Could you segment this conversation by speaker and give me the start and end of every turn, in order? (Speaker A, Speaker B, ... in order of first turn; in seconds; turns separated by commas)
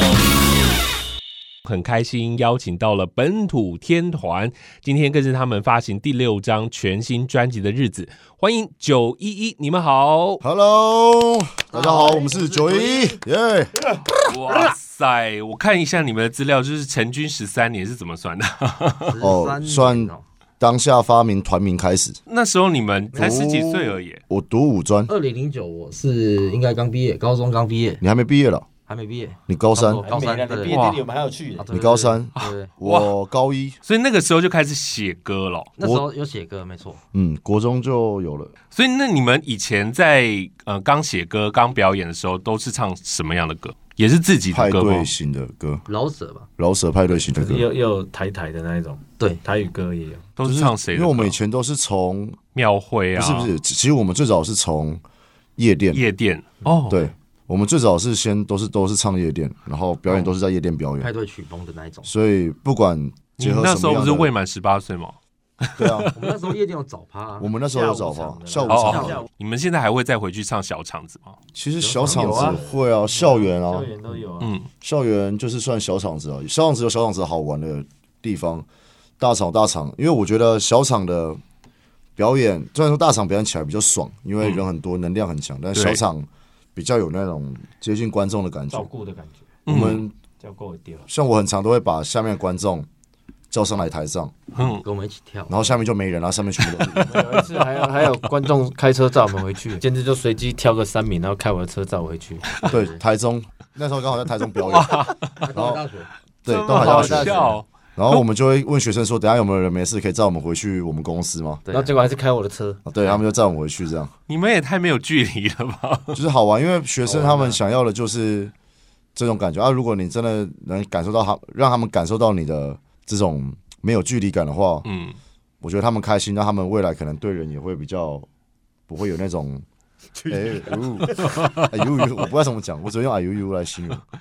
Speaker A: 1.6-10.4, Speaker B: 10.4-14.0, Speaker C: 11.7-13.2, Speaker A: 14.2-19.2, Speaker C: 19.1-20.2, Speaker B: 19.2-22.2, Speaker A: 22.3-24.2, Speaker B: 23.1-25.1, Speaker C: 25.1-28.0, Speaker B: 28.0-28.6, Speaker C: 28.9-30.8, Speaker B: 29.5-30.0, Speaker D: 29.9-31.7, Speaker A: 30.7-31.0, Speaker C: 31.6-32.7, Speaker B: 31.7-33.8, Speaker A: 32.4-33.1, Speaker A: 33.8-35.7, Speaker C: 35.8-37.0, Speaker B: 35.8-36.1, Speaker B: 37.1-38.5, Speaker A: 38.7-45.1, Speaker B: 44.5-45.9, Speaker C: 45.9-46.5, Speaker B: 46.6-47.7, Speaker D: 47.4-50.2, Speaker A: 50.4-51.4, Speaker B: 50.4-52.4, Speaker A: 52.5-53.5, Speaker B: 53.1-55.0, Speaker B: 55.6-56.0, Speaker A: 55.9-57.0, Speaker B: 56.9-61.1, Speaker C: 61.0-62.1, Speaker B: 62.0-64.3, Speaker A: 63.4-66.3, Speaker B: 65.8-66.1, Speaker C: 66.2-67.5, Speaker B: 67.4-69.2, Speaker D: 67.7-69.3, Speaker A: 68.7-71.4, Speaker C: 68.7-69.2, Speaker B: 71.5-73.9, Speaker D: 71.8-74.5, Speaker C: 72.0-72.6, Speaker A: 74.4-74.7, Speaker B: 74.8-78.7, Speaker B: 79.2-81.4, Speaker B: 82.2-88.9, Speaker A: 85.7-86.0, Speaker D: 88.7-89.5, Speaker A: 89.7-90.0, Speaker B: 89.7-90.1, Speaker D: 90.4-91.1, Speaker B: 91.1-92.8, Speaker B: 93.5-94.3, Speaker A: 94.5-94.8, Speaker C: 94.6-95.8, Speaker B: 95.5-97.2, Speaker A: 96.7-97.2, Speaker D: 97.0-102.4, Speaker C: 102.5-103.0, Speaker B: 102.6-105.8, Speaker A: 104.5-105.4, Speaker C: 105.4-106.1, Speaker B: 106.4-111.6, Speaker A: 106.5-108.2, Speaker D: 106.7-107.6, Speaker D: 111.7-112.8, Speaker B: 112.8-114.1, Speaker A: 114.3-116.2, Speaker B: 116.1-118.5, Speaker C: 117.0-117.6, Speaker B: 119.1-124.9, Speaker A: 124.8-125.2, Speaker B: 125.6-128.3, Speaker B: 128.9-129.6, Speaker B: 130.2-134.0